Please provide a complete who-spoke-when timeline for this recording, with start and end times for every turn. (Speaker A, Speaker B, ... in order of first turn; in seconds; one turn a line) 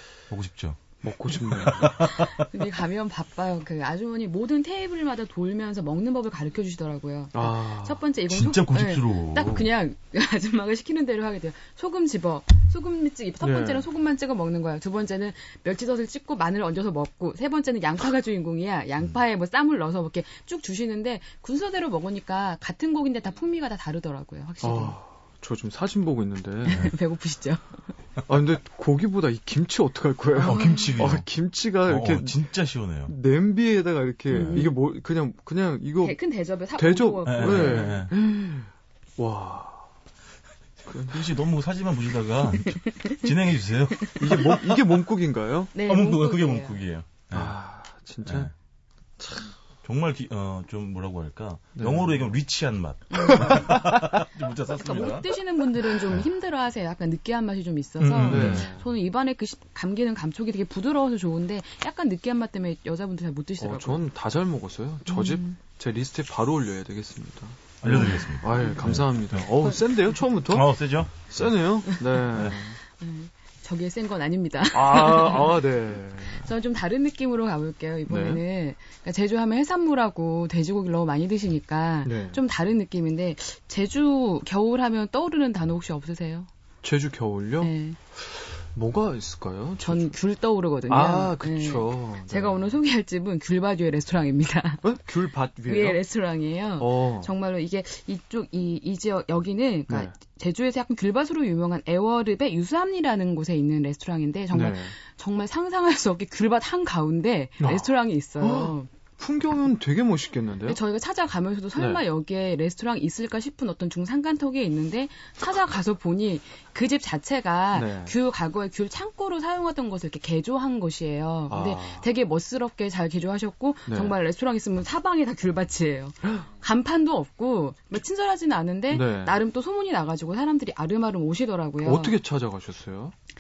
Speaker A: 0.3-2.5
Speaker B: 1.0-1.9
Speaker C: 2.3-25.0
Speaker B: 7.3-8.0
Speaker A: 8.3-9.7
Speaker B: 13.4-13.9
Speaker B: 24.6-26.9
Speaker C: 26.6-27.9
Speaker B: 28.3-32.4
Speaker A: 30.4-31.3
Speaker C: 30.4-31.0
Speaker A: 31.9-33.1
Speaker B: 33.1-36.2
Speaker A: 34.3-34.7
Speaker C: 34.4-34.7
Speaker C: 36.0-38.5
Speaker B: 36.8-39.9
Speaker A: 37.2-38.1
Speaker B: 40.9-41.4
Speaker A: 41.1-44.6
Speaker C: 42.7-43.3
Speaker B: 44.2-45.7
Speaker C: 45.7-46.8
Speaker A: 45.8-47.6
Speaker B: 47.3-48.5
Speaker A: 48.3-48.5
Speaker B: 49.2-49.5
Speaker A: 49.8-56.3
Speaker B: 51.8-52.3
Speaker C: 53.1-53.7
Speaker B: 53.4-53.9
Speaker C: 54.8-64.0
Speaker A: 58.0-58.7
Speaker B: 58.2-58.9
Speaker B: 63.6-72.8
Speaker C: 65.1-65.5
Speaker A: 67.8-69.6
Speaker C: 68.4-68.8
Speaker A: 70.5-71.5
Speaker C: 71.9-75.7
Speaker A: 72.3-72.6
Speaker B: 74.7-76.5
Speaker C: 76.2-86.5
Speaker B: 78.1-78.4
Speaker B: 82.0-82.4
Speaker B: 86.8-90.2
Speaker C: 87.6-88.0
Speaker C: 89.8-95.0
Speaker B: 90.9-92.7
Speaker B: 94.8-96.0
Speaker C: 95.6-108.9
Speaker B: 96.8-97.3
Speaker B: 104.5-105.0
Speaker B: 107.6-110.8
Speaker C: 110.7-132.2
Speaker B: 111.8-112.0
Speaker B: 117.7-118.1
Speaker B: 121.5-122.1
Speaker B: 123.9-124.2
Speaker B: 128.9-129.4
Speaker B: 131.8-133.1